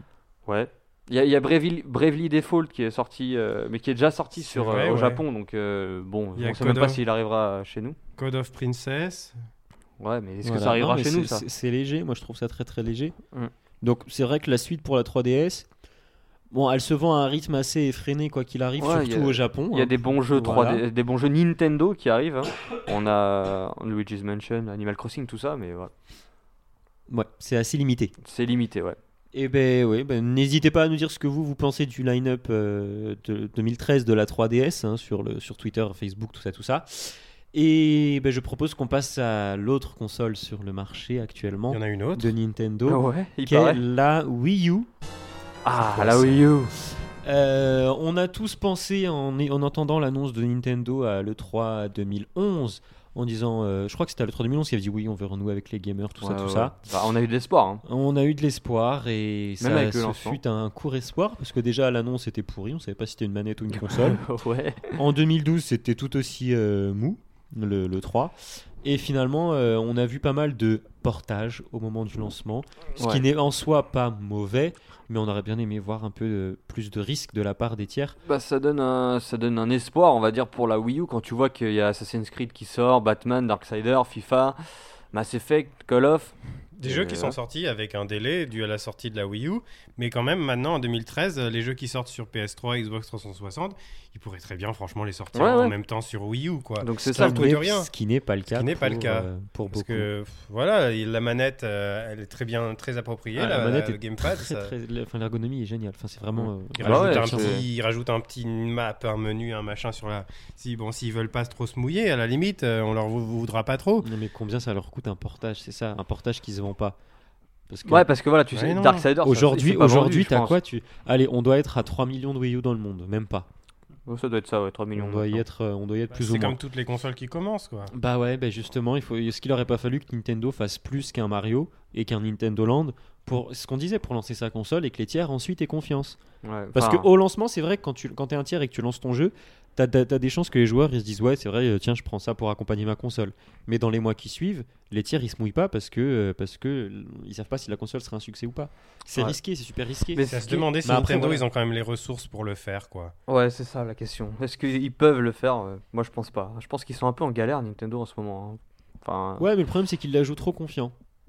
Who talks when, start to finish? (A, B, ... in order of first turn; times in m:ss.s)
0:00.4-0:08.0 A
0:04.4-0:05.2 B
0:06.4-0:07.0 B
0:08.2-0:09.4 B
0:10.0-0:11.4 A
0:10.4-0:13.1 C
0:13.8-0:15.7 C
0:16.5-0:20.8 C
0:18.8-0:25.9 A
0:27.1-0:28.1 C
0:28.2-0:29.0 A
0:29.3-0:44.9 C
0:41.7-0:42.3 B
0:42.8-0:43.8 A
0:45.6-0:46.7 A
0:45.7-0:56.7 C
0:56.2-0:57.8 A
0:57.8-1:04.2 C
0:59.6-1:00.4 A
1:03.8-1:05.0 A
1:04.9-1:18.2 C
1:13.0-1:13.2 A
1:18.2-1:27.4 A
1:26.8-1:37.9 B
1:35.3-1:35.7 A
1:36.8-1:37.5 A
1:37.1-1:40.1 C
1:38.5-1:44.7 B
1:43.3-1:47.6 C
1:46.4-1:47.6 A
1:46.8-1:54.1 B
1:54.0-1:57.0 C
1:57.7-1:58.1 C
1:57.8-2:00.6 A
1:58.5-1:59.1 B
1:59.2-2:03.5 C
2:04.1-2:05.4 A
2:05.0-2:06.6 C
2:06.1-2:07.9 B
2:07.9-2:16.2 C
2:16.4-2:17.1 A
2:16.7-2:31.4 C
2:30.1-2:30.6 A
2:30.2-2:33.1 B
2:33.3-2:39.4 A
2:39.4-2:40.9 C